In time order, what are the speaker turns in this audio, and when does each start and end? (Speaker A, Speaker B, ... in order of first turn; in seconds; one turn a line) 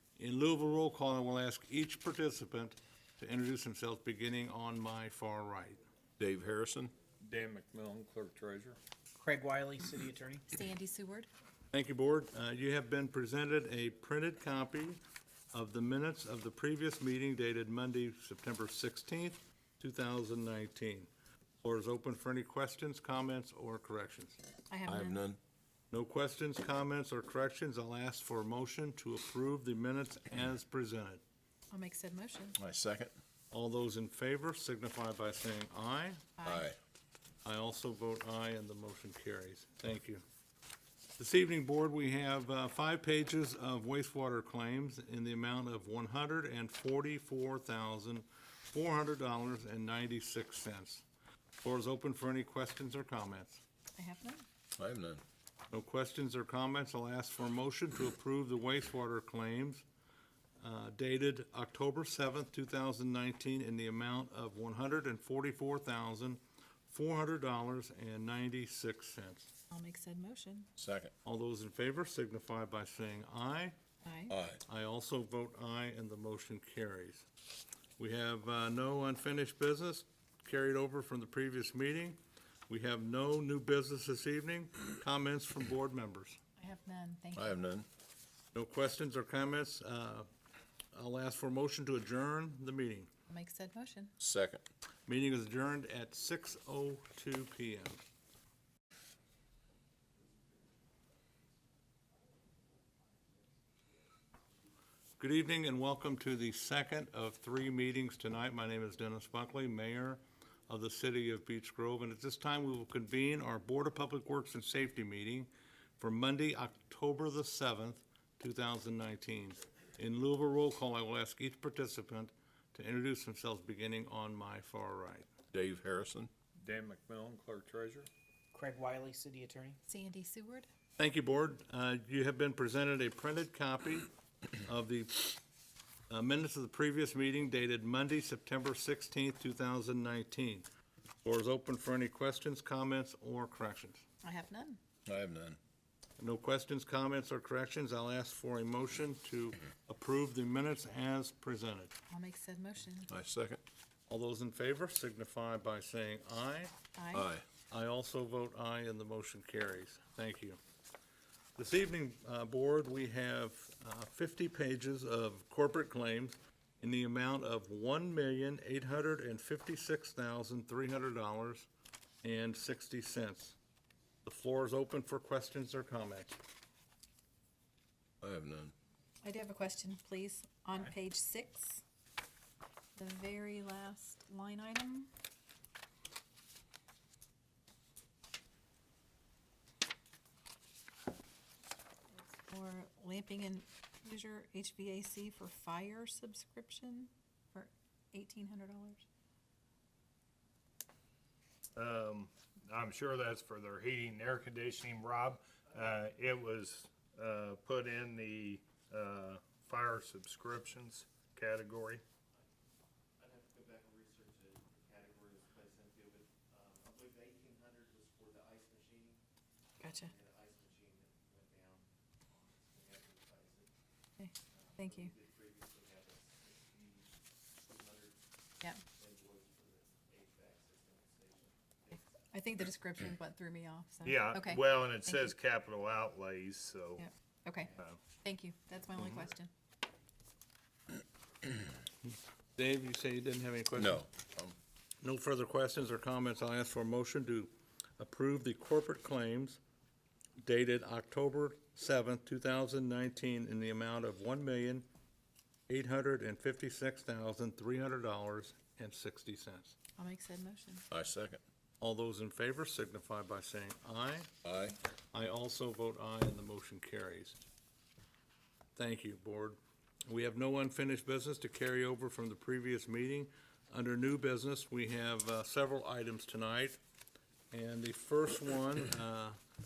Speaker A: 0.2-5.8
Speaker B: 6.2-6.9
Speaker C: 7.2-8.8
Speaker D: 9.2-10.5
Speaker E: 10.5-11.3
Speaker A: 11.7-15.0
Speaker A: 15.5-21.1
Speaker A: 21.6-24.4
Speaker E: 24.7-25.2
Speaker B: 24.9-25.4
Speaker A: 25.9-31.2
Speaker E: 31.7-32.6
Speaker B: 32.6-33.1
Speaker A: 33.5-36.2
Speaker E: 36.4-36.7
Speaker B: 36.4-36.8
Speaker A: 37.4-40.2
Speaker A: 41.2-51.1
Speaker A: 51.6-53.6
Speaker E: 54.0-54.4
Speaker B: 54.8-55.2
Speaker A: 55.7-59.9
Speaker A: 60.6-69.5
Speaker E: 69.7-70.7
Speaker B: 70.8-71.1
Speaker A: 71.2-73.8
Speaker E: 74.0-74.4
Speaker B: 74.3-74.6
Speaker A: 74.7-77.3
Speaker A: 78.0-82.2
Speaker A: 82.7-86.4
Speaker E: 86.6-87.6
Speaker B: 87.3-87.9
Speaker A: 88.5-90.3
Speaker A: 90.9-93.1
Speaker E: 93.3-94.1
Speaker B: 94.2-94.6
Speaker A: 95.1-98.0
Speaker A: 105.2-115.5
Speaker A: 116.0-125.3
Speaker B: 125.5-126.3
Speaker C: 126.6-128.1
Speaker D: 128.5-129.8
Speaker E: 129.9-130.7
Speaker A: 131.0-134.1
Speaker A: 134.6-135.4
Speaker A: 136.1-140.7
Speaker A: 141.2-144.0
Speaker E: 144.2-144.8
Speaker B: 145.1-145.6
Speaker A: 146.2-151.9
Speaker E: 152.1-153.1
Speaker B: 153.1-153.6
Speaker A: 154.1-156.7
Speaker E: 157.0-157.3
Speaker B: 157.1-157.4
Speaker A: 157.7-160.6
Speaker A: 161.6-171.7
Speaker A: 172.2-173.6
Speaker A: 174.2-176.4
Speaker B: 178.2-178.7
Speaker E: 179.2-181.8
Speaker E: 183.0-185.1
Speaker E: 192.4-199.1
Speaker F: 201.8-212.0
Speaker G: 213.2-219.2
Speaker E: 219.8-220.1
Speaker G: 219.8-223.7
Speaker E: 224.2-225.1
Speaker G: 224.7-228.2
Speaker G: 229.0-232.1
Speaker E: 232.3-235.3
Speaker F: 234.1-237.0
Speaker E: 237.0-239.5
Speaker A: 242.6-244.1
Speaker B: 243.8-244.6
Speaker A: 245.0-249.6
Speaker A: 250.4-254.9
Speaker A: 255.7-259.8
Speaker E: 260.0-260.9
Speaker B: 260.9-261.4
Speaker A: 261.8-264.3
Speaker B: 264.4-264.8
Speaker A: 265.1-267.4
Speaker A: 268.8-276.8
Speaker A: 277.5-279.4